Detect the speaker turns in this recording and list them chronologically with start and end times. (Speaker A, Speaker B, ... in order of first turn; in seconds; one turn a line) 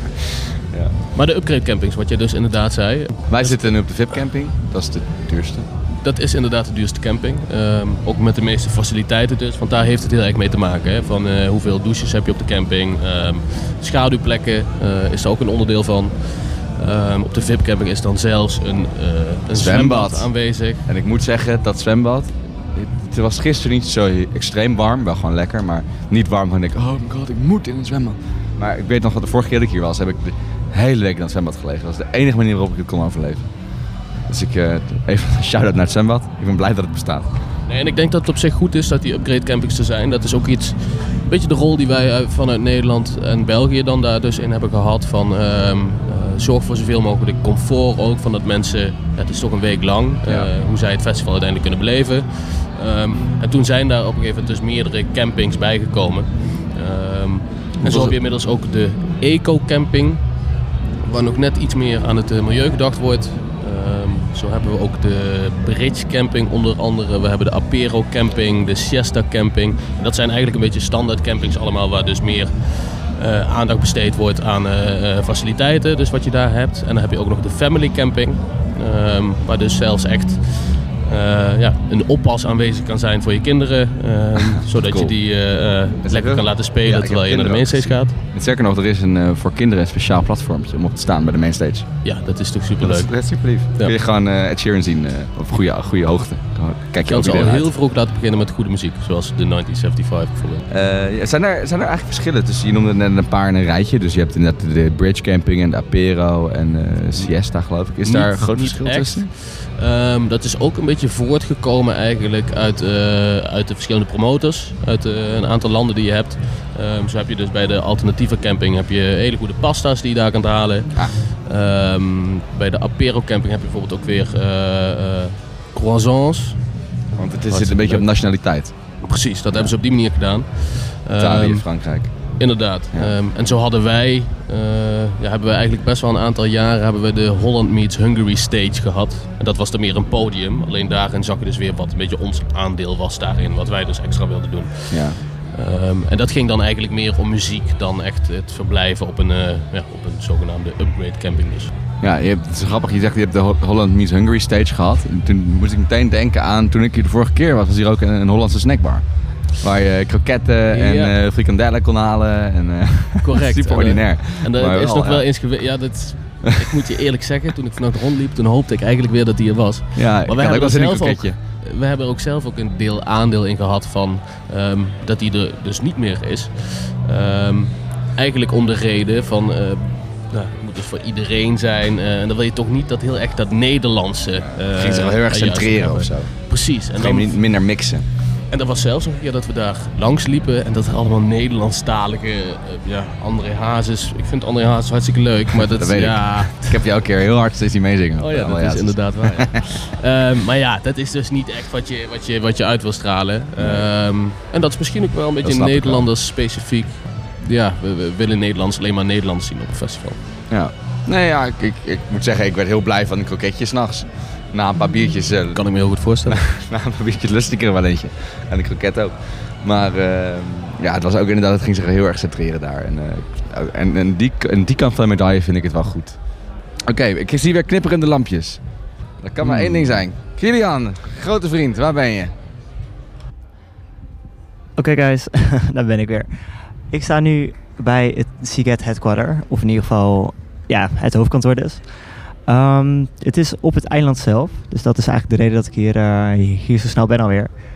Speaker A: 1.1-4.2
Speaker B: 3.3-5.7
Speaker A: 6.0-20.8
Speaker B: 19.5-20.3
Speaker B: 20.9-33.5
Speaker B: 34.3-37.3
Speaker A: 37.7-60.2
Speaker B: 57.8-58.2
Speaker A: 61.0-88.2
Speaker B: 84.7-85.2
Speaker B: 86.0-92.1
Speaker A: 92.0-93.9
Speaker B: 92.8-97.7
Speaker A: 97.1-100.7
Speaker B: 100.7-109.3
Speaker A: 107.1-126.7
Speaker B: 127.2-129.8
Speaker A: 127.5-128.4
Speaker A: 129.0-151.7
Speaker B: 131.2-133.1
Speaker B: 144.9-145.2
Speaker B: 152.0-165.3
Speaker A: 160.7-161.2
Speaker A: 163.2-187.5
Speaker B: 169.9-171.4
Speaker B: 184.4-188.1
Speaker A: 188.5-196.8
Speaker B: 195.8-199.4
Speaker A: 198.2-210.2
Speaker B: 203.6-203.9
Speaker B: 205.4-206.1
Speaker B: 210.5-226.2
Speaker A: 215.5-216.4
Speaker B: 226.9-228.6
Speaker B: 229.2-232.3
Speaker C: 234.8-247.5